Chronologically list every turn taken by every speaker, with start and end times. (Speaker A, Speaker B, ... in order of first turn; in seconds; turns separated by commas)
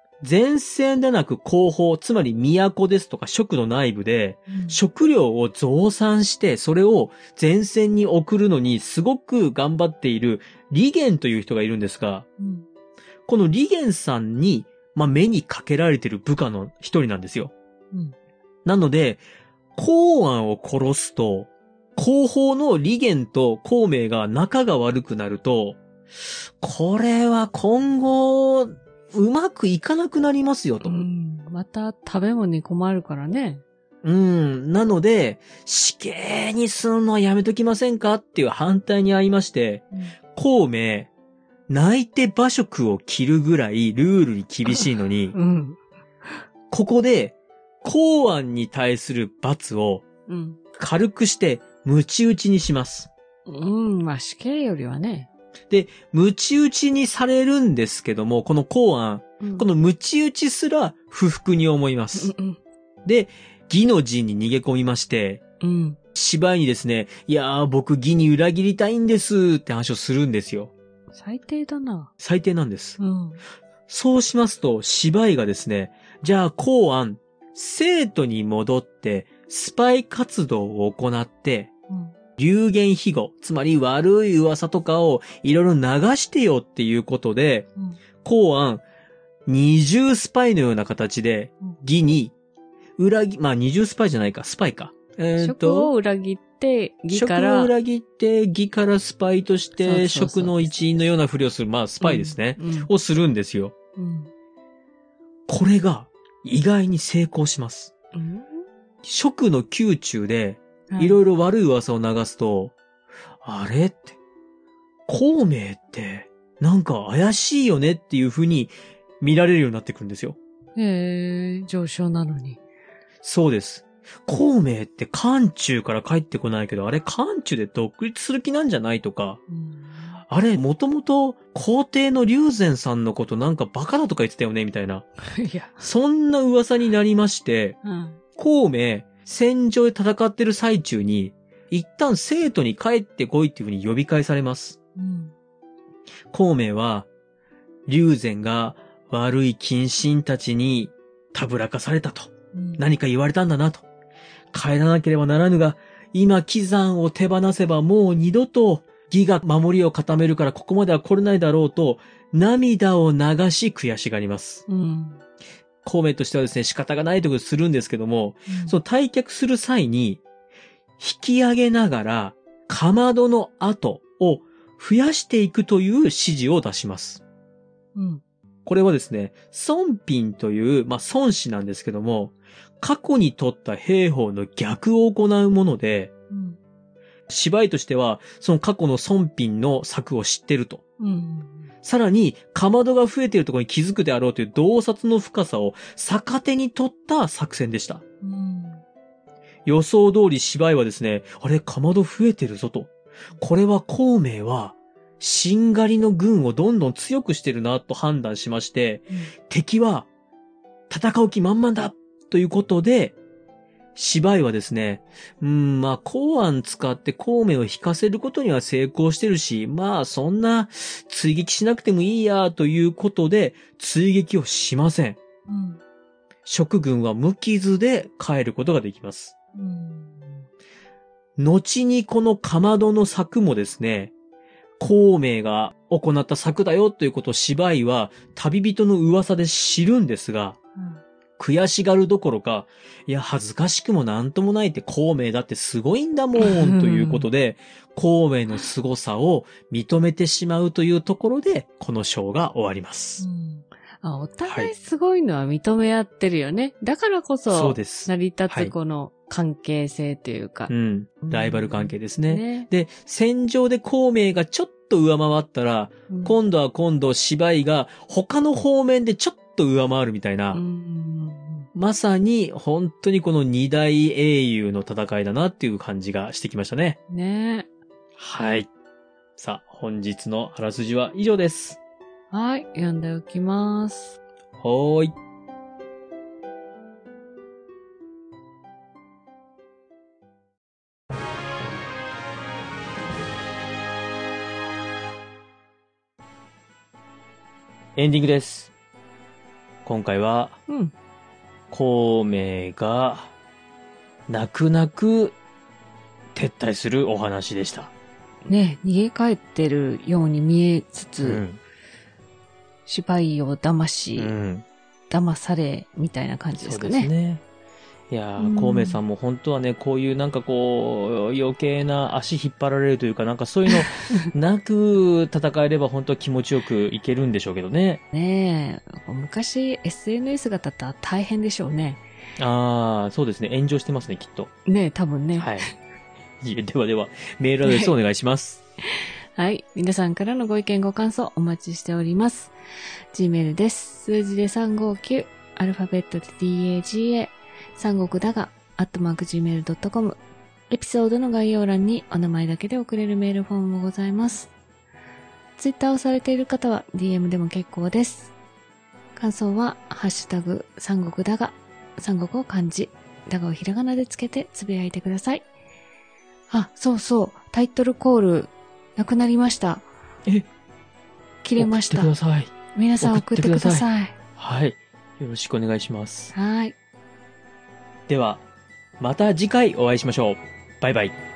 Speaker A: 0.2-12.3, Speaker B: 4.5-4.8, Speaker B: 12.4-12.7, Speaker A: 13.3-17.5, Speaker A: 18.6-19.2, Speaker A: 19.8-25.8, Speaker A: 26.6-31.0, Speaker B: 30.8-33.6, Speaker A: 34.0-41.1, Speaker A: 41.7-45.4, Speaker B: 44.7-46.3, Speaker A: 46.7-50.0, Speaker B: 50.3-50.6, Speaker A: 50.8-53.1, Speaker B: 53.5-55.3, Speaker A: 55.7-62.3, Speaker B: 59.4-59.7, Speaker B: 62.1-62.6, Speaker A: 63.0-65.4, Speaker B: 65.6-66.0, Speaker A: 66.1-70.7, Speaker B: 71.1-72.1, Speaker A: 72.2-73.0, Speaker B: 73.0-73.4, Speaker A: 73.9-81.7, Speaker A: 82.4-87.7, Speaker A: 88.2-88.8, Speaker A: 89.5-92.3, Speaker A: 93.0-95.9, Speaker B: 95.4-97.7, Speaker A: 97.1-103.7, Speaker B: 99.8-100.7, Speaker B: 102.0-102.9, Speaker B: 104.0-104.3, Speaker A: 105.5-107.9, Speaker B: 108.2-108.6, Speaker A: 109.0-112.8, Speaker B: 110.9-111.2, Speaker A: 113.4-114.2, Speaker A: 115.1-120.4, Speaker B: 120.8-122.6, Speaker A: 123.2-129.4, Speaker B: 129.5-130.2, Speaker A: 130.3-135.1, Speaker B: 135.3-135.9, Speaker A: 135.8-137.8, Speaker B: 137.8-138.2, Speaker A: 138.4-144.8, Speaker B: 145.0-145.3, Speaker A: 146.3-147.1, Speaker A: 147.9-153.8, Speaker B: 152.5-152.8, Speaker A: 154.5-164.6, Speaker B: 164.7-165.2, Speaker A: 165.8-170.2, Speaker B: 168.5-168.8, Speaker A: 171.0-177.2, Speaker B: 178.0-178.2, Speaker A: 178.7-186.1, Speaker B: 186.3-186.6, Speaker A: 187.3-190.8, Speaker B: 191.0-191.7, Speaker A: 191.8-198.0, Speaker B: 198.2-198.8, Speaker A: 199.7-210.1, Speaker A: 210.9-213.2, Speaker A: 213.9-225.2, Speaker B: 225.5-225.8, Speaker A: 226.5-229.3, Speaker B: 229.6-230.5, Speaker A: 231.4-234.1, Speaker A: 234.8-240.6, Speaker A: 241.4-253.2, Speaker B: 246.4-247.3, Speaker B: 253.2-262.7, Speaker A: 254.5-254.7, Speaker A: 257.5-258.7, Speaker A: 260.7-270.6, Speaker B: 266.1-266.4, Speaker B: 270.5-271.7, Speaker A: 271.8-277.0, Speaker B: 277.1-277.7, Speaker A: 278.2-278.7, Speaker A: 279.4-281.8, Speaker B: 282.3-284.2, Speaker A: 284.6-285.1, Speaker A: 298.0-298.7, Speaker A: 299.9-300.6, Speaker B: 300.7-300.9, Speaker A: 301.7-303.3, Speaker A: 304.3-305.4, Speaker A: 306.4-307.9, Speaker B: 308.5-311.4, Speaker A: 311.2-311.6, Speaker B: 312.9-314.3, Speaker A: 314.2-314.7, Speaker B: 315.1-317.1, Speaker A: 316.6-317.4, Speaker A: 318.1-328.0, Speaker B: 318.4-319.0, Speaker B: 328.1-332.0, Speaker A: 332.4-334.5, Speaker B: 334.7-335.6, Speaker A: 335.4-335.7, Speaker A: 336.4-338.6, Speaker B: 337.6-337.9, Speaker B: 339.4-342.5, Speaker B: 343.1-350.2, Speaker B: 350.7-354.5, Speaker B: 355.6-358.3, Speaker B: 359.2-365.5, Speaker B: 366.5-369.9, Speaker B: 371.4-372.1, Speaker A: 371.6-376.3, Speaker B: 372.8-374.1, Speaker B: 376.3-376.8, Speaker A: 378.1-378.4, Speaker A: 379.0-381.2